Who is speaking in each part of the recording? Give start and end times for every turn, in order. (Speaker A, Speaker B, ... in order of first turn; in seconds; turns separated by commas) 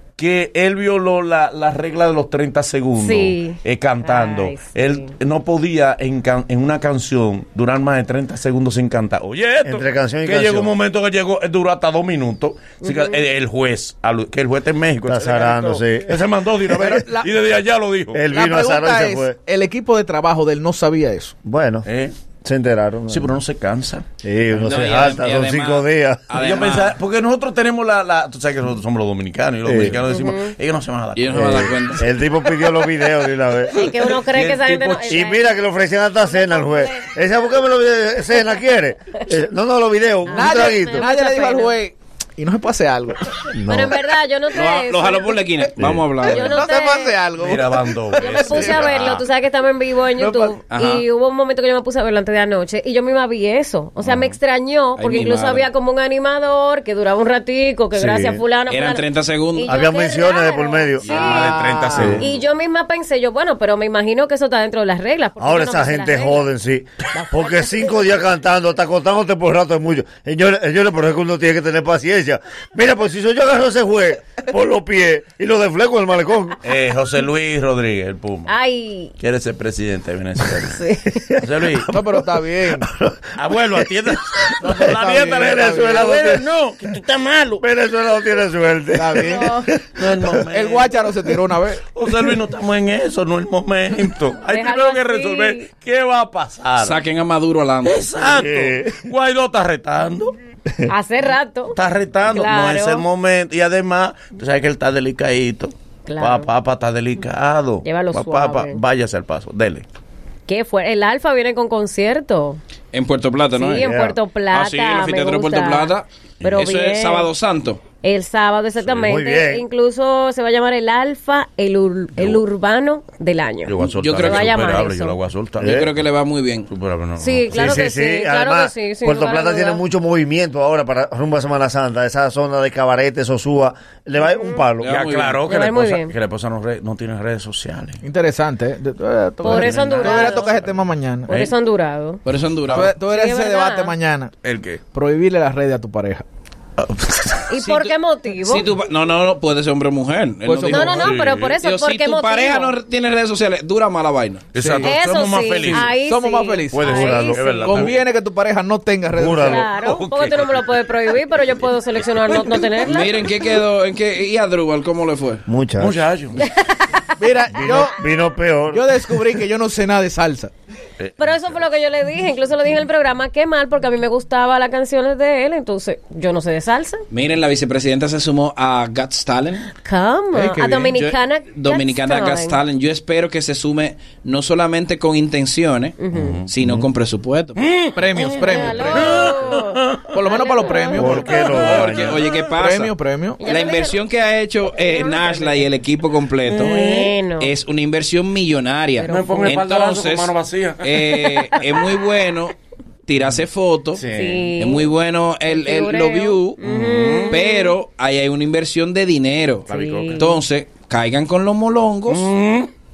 Speaker A: 0.2-18.2, Speaker B: 3.0-5.1, Speaker C: 9.6-10.7, Speaker B: 12.8-13.2, Speaker C: 15.1-17.0, Speaker D: 16.7-17.3, Speaker C: 18.1-19.4, Speaker D: 18.3-21.3, Speaker C: 21.4-21.9, Speaker A: 21.8-22.1, Speaker C: 22.4-23.4, Speaker A: 23.1-24.0, Speaker C: 24.2-26.3, Speaker E: 24.6-27.0, Speaker A: 26.3-31.6, Speaker C: 29.6-30.0, Speaker B: 30.1-30.5, Speaker E: 31.1-32.1, Speaker C: 31.3-33.8, Speaker B: 33.7-35.5, Speaker A: 34.0-35.2, Speaker C: 35.1-41.0, Speaker B: 36.2-37.1, Speaker B: 40.2-41.4, Speaker D: 40.3-43.4, Speaker E: 41.3-41.7, Speaker C: 43.5-44.0, Speaker B: 43.7-45.4, Speaker E: 44.6-46.4, Speaker A: 45.8-46.6, Speaker D: 46.0-49.1, Speaker B: 46.2-47.2, Speaker A: 47.4-49.2, Speaker B: 48.2-59.0, Speaker D: 50.2-50.6, Speaker E: 50.7-51.0, Speaker A: 54.0-54.3, Speaker E: 55.0-55.7, Speaker C: 57.9-58.4, Speaker E: 58.7-59.7, Speaker B: 59.6-66.5, Speaker C: 59.7-61.1, Speaker D: 61.0-62.2, Speaker A: 61.1-62.4, Speaker C: 61.9-62.2, Speaker C: 65.4-76.6, Speaker B: 67.1-68.0, Speaker A: 76.6-78.5, Speaker B: 78.5-79.1, Speaker A: 79.2-80.8, Speaker B: 80.6-81.2, Speaker A: 81.3-82.0, Speaker D: 81.9-82.9, Speaker C: 82.7-86.5, Speaker A: 83.3-87.6, Speaker D: 84.6-86.1, Speaker C: 87.6-90.4, Speaker D: 88.9-89.5, Speaker B: 89.2-89.7, Speaker A: 89.9-91.1, Speaker D: 90.5-91.8, Speaker A: 91.9-97.0, Speaker B: 94.5-95.7, Speaker E: 96.8-98.1, Speaker A: 97.8-100.3, Speaker C: 98.3-99.0, Speaker B: 100.8-103.0, Speaker A: 101.7-109.8, Speaker B: 106.0-106.5, Speaker B: 107.8-108.8, Speaker B: 110.5-112.6, Speaker E: 112.9-113.8, Speaker B: 113.6-117.3, Speaker C: 113.7-114.2, Speaker E: 114.5-116.0, Speaker E: 116.7-117.9, Speaker B: 117.9-125.2, Speaker C: 119.0-119.6, Speaker A: 123.7-126.0, Speaker E: 123.9-124.4, Speaker C: 125.6-125.9, Speaker E: 125.8-126.7, Speaker A: 126.7-127.6, Speaker B: 127.2-129.8, Speaker C: 127.5-134.9, Speaker B: 134.2-134.6, Speaker E: 134.8-135.4, Speaker A: 134.8-138.0, Speaker B: 135.4-136.1, Speaker D: 138.0-141.3, Speaker B: 139.4-140.5, Speaker A: 139.4-140.8, Speaker B: 141.3-142.2, Speaker E: 142.2-142.9, Speaker A: 142.3-142.9, Speaker D: 142.7-144.3, Speaker B: 142.9-143.9, Speaker A: 144.4-144.8, Speaker D: 144.9-146.2, Speaker A: 146.8-147.5, Speaker B: 147.5-148.7, Speaker E: 147.6-147.9, Speaker E: 148.4-150.7, Speaker D: 150.4-151.1, Speaker B: 150.7-152.8, Speaker A: 150.7-151.6, Speaker E: 151.6-154.5, Speaker A: 154.5-155.9, Speaker D: 154.6-154.9, Speaker B: 154.8-157.8, Speaker D: 155.6-159.7, Speaker A: 156.7-158.1, Speaker C: 156.9-157.3, Speaker C: 159.1-159.6, Speaker B: 159.4-163.5, Speaker A: 159.8-161.4, Speaker A: 161.9-162.6, Speaker E: 162.8-165.4, Speaker C: 165.5-166.0, Speaker A: 165.8-166.5, Speaker B: 166.4-167.1, Speaker D: 167.2-168.0, Speaker C: 167.5-168.8, Speaker D: 168.7-170.5, Speaker A: 171.0-171.5, Speaker B: 171.2-177.0, Speaker E: 177.1-179.7, Speaker B: 179.8-182.6, Speaker D: 180.3-181.0, Speaker E: 181.0-187.6, Speaker B: 186.0-186.4, Speaker A: 186.1-186.5, Speaker C: 186.6-186.9, Speaker A: 187.5-190.1, Speaker D: 187.9-189.2, Speaker B: 188.4-191.4, Speaker D: 190.1-193.4, Speaker C: 190.9-192.2, Speaker E: 191.5-192.9, Speaker A: 191.6-192.4, Speaker B: 193.4-194.0, Speaker E: 193.4-196.8, Speaker B: 194.7-195.7, Speaker A: 196.5-197.2, Speaker B: 196.5-197.5, Speaker E: 197.4-202.5, Speaker B: 199.0-199.6, Speaker A: 199.1-201.4, Speaker E: 203.1-206.6, Speaker A: 203.9-204.5, Speaker B: 204.1-204.9, Speaker B: 205.4-207.8, Speaker A: 206.6-207.4, Speaker E: 207.3-212.3, Speaker A: 209.7-210.3, Speaker B: 209.7-210.3, Speaker A: 212.1-212.7